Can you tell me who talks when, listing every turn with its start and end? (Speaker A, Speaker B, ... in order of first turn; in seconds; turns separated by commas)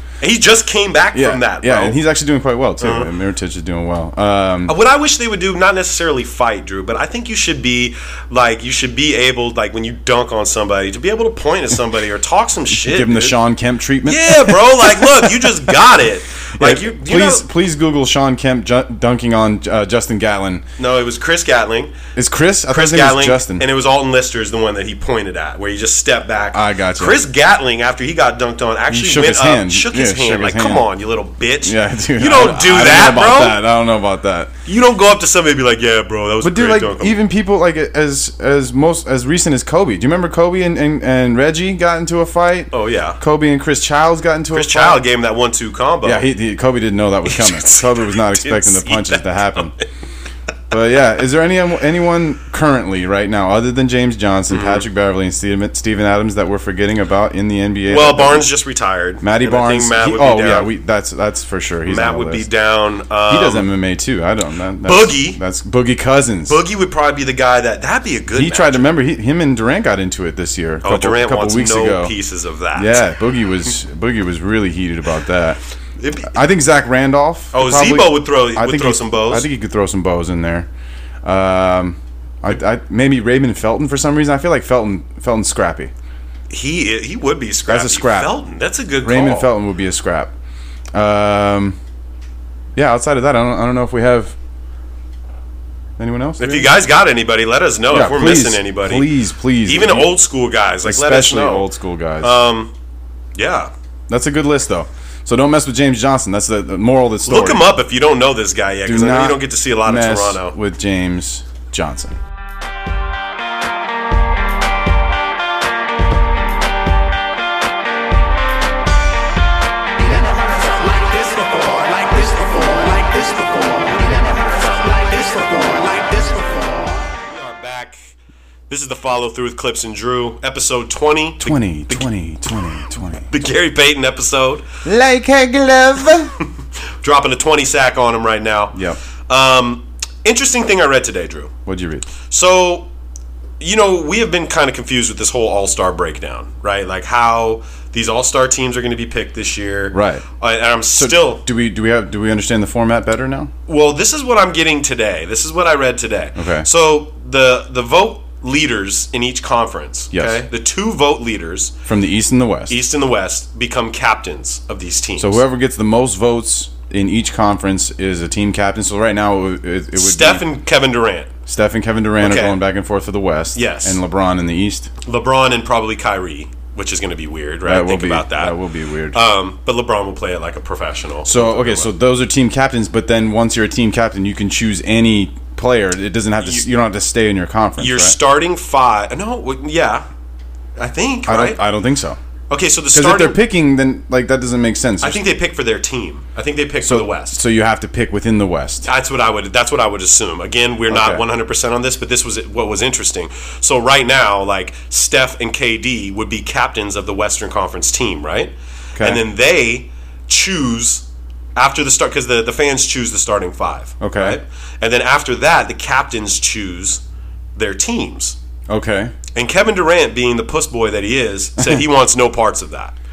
Speaker A: 0.2-2.0, Speaker B: 1.1-4.8, Speaker A: 2.8-3.1, Speaker A: 4.7-13.4, Speaker B: 12.7-15.7, Speaker A: 14.1-17.4, Speaker B: 16.6-20.6, Speaker A: 20.8-21.9, Speaker B: 22.1-23.6, Speaker A: 22.7-33.6, Speaker B: 26.5-27.2, Speaker B: 28.9-30.9, Speaker B: 31.6-34.5, Speaker A: 34.6-37.2, Speaker B: 36.4-45.0, Speaker A: 42.7-43.2, Speaker A: 44.5-46.2, Speaker B: 46.0-49.8, Speaker A: 47.3-49.8, Speaker B: 50.7-58.5, Speaker A: 54.5-54.9, Speaker A: 57.9-60.7, Speaker B: 59.2-62.5, Speaker A: 61.9-63.7, Speaker B: 63.3-66.6, Speaker A: 64.8-65.4, Speaker A: 66.5-68.9, Speaker B: 68.3-72.1, Speaker A: 70.8-73.0, Speaker B: 72.8-75.6, Speaker A: 76.0-76.3, Speaker B: 76.3-80.7, Speaker A: 77.5-79.5, Speaker B: 81.2-85.9, Speaker A: 86.5-89.5, Speaker B: 87.7-88.3, Speaker B: 89.0-90.3, Speaker B: 90.9-91.8, Speaker B: 92.8-94.4, Speaker B: 96.0-96.8, Speaker A: 96.4-99.1, Speaker B: 97.9-100.1, Speaker A: 99.7-101.7, Speaker B: 100.8-102.4, Speaker A: 102.2-102.7, Speaker A: 103.4-103.7, Speaker B: 104.1-107.7, Speaker A: 107.2-110.6, Speaker B: 108.9-112.2, Speaker C: 120.0-127.0, Speaker A: 127.2-128.0, Speaker A: 128.7-132.1, Speaker B: 131.4-133.3, Speaker A: 133.3-134.7, Speaker B: 134.8-136.3, Speaker A: 137.0-141.5, Speaker B: 141.7-142.1, Speaker A: 142.3-142.9, Speaker A: 143.6-151.4, Speaker B: 149.9-150.3, Speaker B: 150.9-153.5, Speaker A: 153.7-161.8, Speaker B: 156.4-156.7, Speaker B: 160.1-160.4, Speaker B: 161.9-162.8, Speaker A: 162.7-165.4, Speaker B: 165.2-170.4, Speaker A: 169.9-171.3, Speaker B: 171.5-174.9, Speaker A: 172.2-172.6, Speaker A: 173.6-174.0, Speaker A: 175.1-178.6, Speaker B: 177.6-179.2, Speaker A: 179.1-181.9, Speaker B: 181.3-188.2, Speaker A: 187.8-190.1, Speaker A: 190.8-191.6, Speaker B: 191.3-192.2, Speaker A: 192.5-193.4, Speaker B: 192.9-195.2, Speaker A: 195.0-197.4, Speaker B: 196.8-198.9, Speaker A: 198.8-217.0, Speaker B: 200.9-201.2, Speaker B: 208.9-209.2, Speaker B: 214.0-214.4, Speaker A: 217.6-218.4, Speaker B: 218.7-219.1, Speaker A: 219.3-222.9